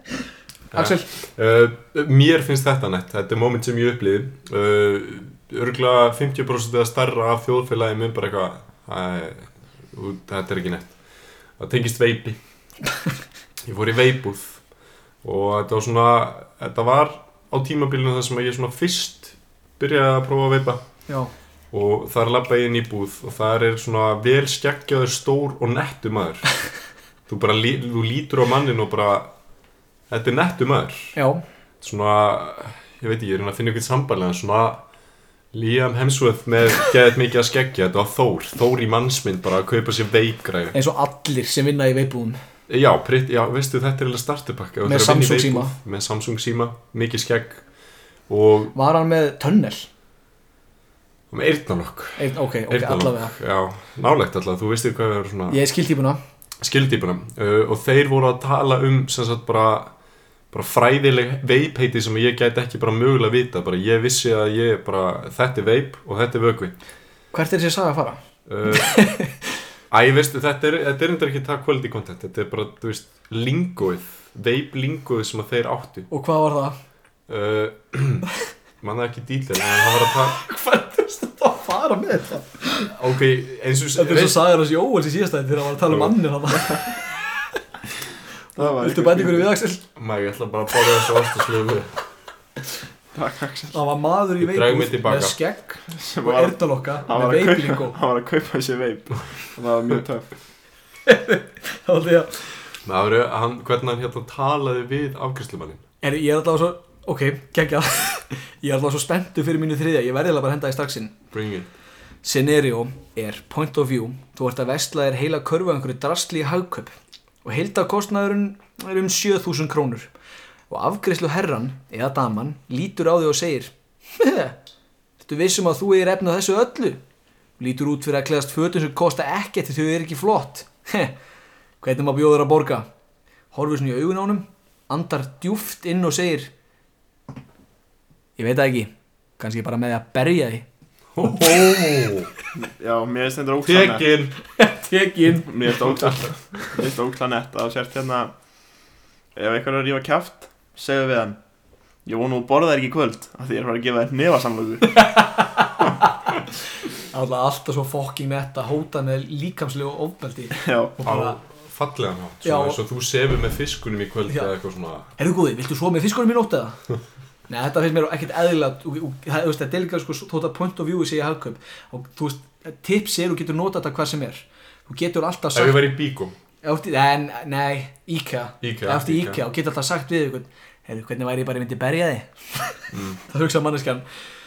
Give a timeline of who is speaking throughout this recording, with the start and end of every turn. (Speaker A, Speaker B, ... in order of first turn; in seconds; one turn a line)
Speaker A: 0.7-11.0
Speaker B: 0.7-1.1
Speaker A: 11.6-12.4
Speaker A: 13.6-14.6
Speaker A: 15.2-20.8
Speaker A: 21.7-26.6
Speaker A: 27.3-29.3
Speaker A: 30.1-31.1
Speaker B: 31.1-31.4
Speaker A: 31.8-34.8
Speaker A: 35.5-40.7
Speaker B: 40.7-42.4
Speaker A: 42.7-47.6
Speaker B: 44.8-45.7
Speaker A: 48.3-48.7
Speaker B: 48.7-49.9
Speaker A: 51.3-55.6
Speaker B: 52.2-53.3
Speaker B: 55.5-56.2
Speaker A: 56.6-59.9
Speaker A: 60.5-66.8
Speaker B: 67.3-69.4
Speaker A: 68.5-69.0
Speaker A: 69.9-76.1
Speaker B: 76.1-76.8
Speaker A: 77.3-78.3
Speaker A: 78.8-80.4
Speaker B: 80.2-82.9
Speaker A: 82.9-84.4
Speaker B: 84.0-87.3
Speaker A: 85.9-86.2
Speaker B: 88.5-89.8
Speaker C: 88.5-89.5
Speaker A: 90.0-92.0
Speaker C: 93.1-93.8
Speaker B: 93.7-98.0
Speaker A: 94.4-95.4
Speaker C: 95.9-100.3
Speaker B: 101.0-102.5
Speaker A: 102.8-105.8
Speaker B: 106.0-111.2
Speaker A: 111.3-111.7
Speaker B: 112.2-116.9
Speaker B: 117.4-120.1
Speaker B: 120.7-124.6
Speaker B: 125.2-127.0
Speaker B: 127.6-131.1
Speaker B: 131.8-132.9
Speaker B: 133.5-136.5
Speaker B: 138.4-140.7
Speaker A: 141.1-142.3
Speaker B: 141.2-141.8
Speaker C: 142.5-144.1
Speaker A: 143.6-144.4
Speaker B: 144.5-145.8
Speaker C: 145.4-148.3
Speaker C: 149.3-151.4
Speaker C: 152.1-155.1
Speaker B: 154.9-156.4
Speaker B: 157.0-161.4
Speaker C: 160.6-160.9
Speaker A: 161.0-165.1
Speaker B: 162.4-162.8
Speaker B: 165.2-166.8
Speaker B: 167.5-175.9
Speaker A: 175.5-176.3
Speaker B: 176.6-184.0
Speaker A: 178.6-179.4
Speaker A: 182.9-183.2